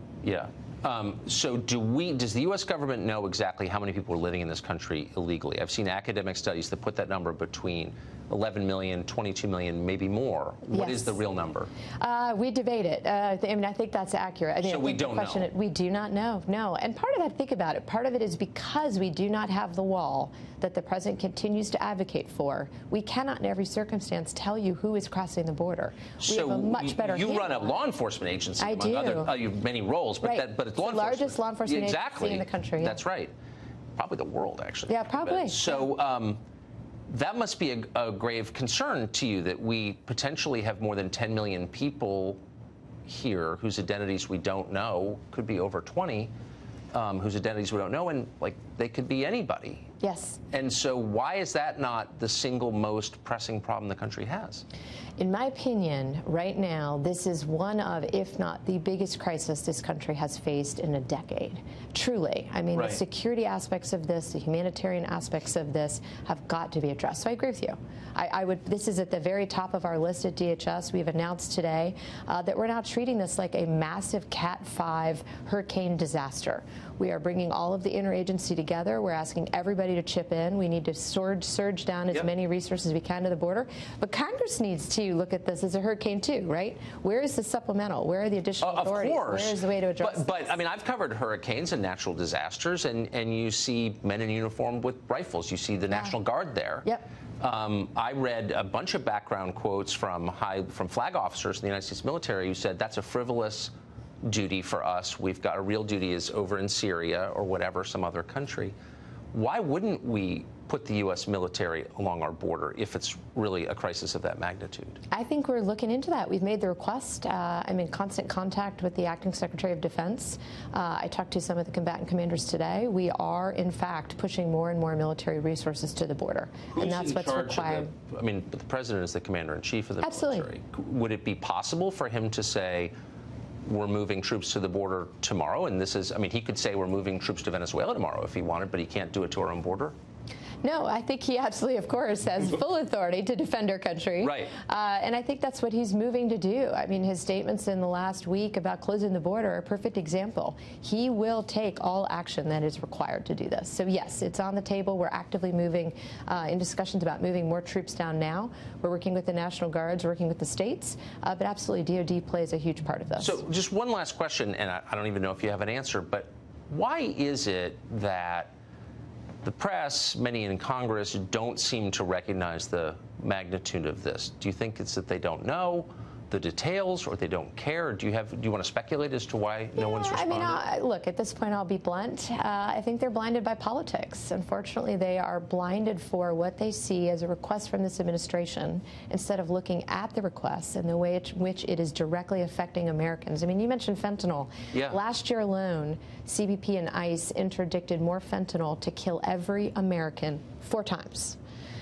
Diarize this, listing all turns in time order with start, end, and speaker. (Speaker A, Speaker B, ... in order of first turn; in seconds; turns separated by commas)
Speaker A: 0.2-11.7, Speaker B: 10.7-11.2, Speaker B: 12.0-27.8, Speaker A: 14.6-15.5, Speaker A: 26.2-33.3, Speaker B: 28.6-29.3, Speaker B: 30.2-33.0, Speaker A: 34.0-36.4, Speaker B: 34.9-35.8, Speaker A: 37.1-42.4, Speaker A: 43.1-46.3, Speaker A: 46.9-49.9, Speaker B: 50.0-50.4, Speaker A: 50.5-54.6, Speaker B: 55.2-90.4, Speaker A: 62.7-63.0, Speaker A: 88.6-96.9, Speaker A: 97.4-108.7, Speaker A: 109.3-115.0, Speaker B: 115.1-127.9, Speaker A: 126.7-132.9, Speaker B: 130.0-130.5, Speaker A: 133.7-139.9, Speaker B: 140.6-163.4, Speaker A: 144.2-144.5, Speaker A: 163.2-168.5, Speaker A: 169.4-180.6, Speaker B: 179.8-201.4, Speaker A: 194.7-195.0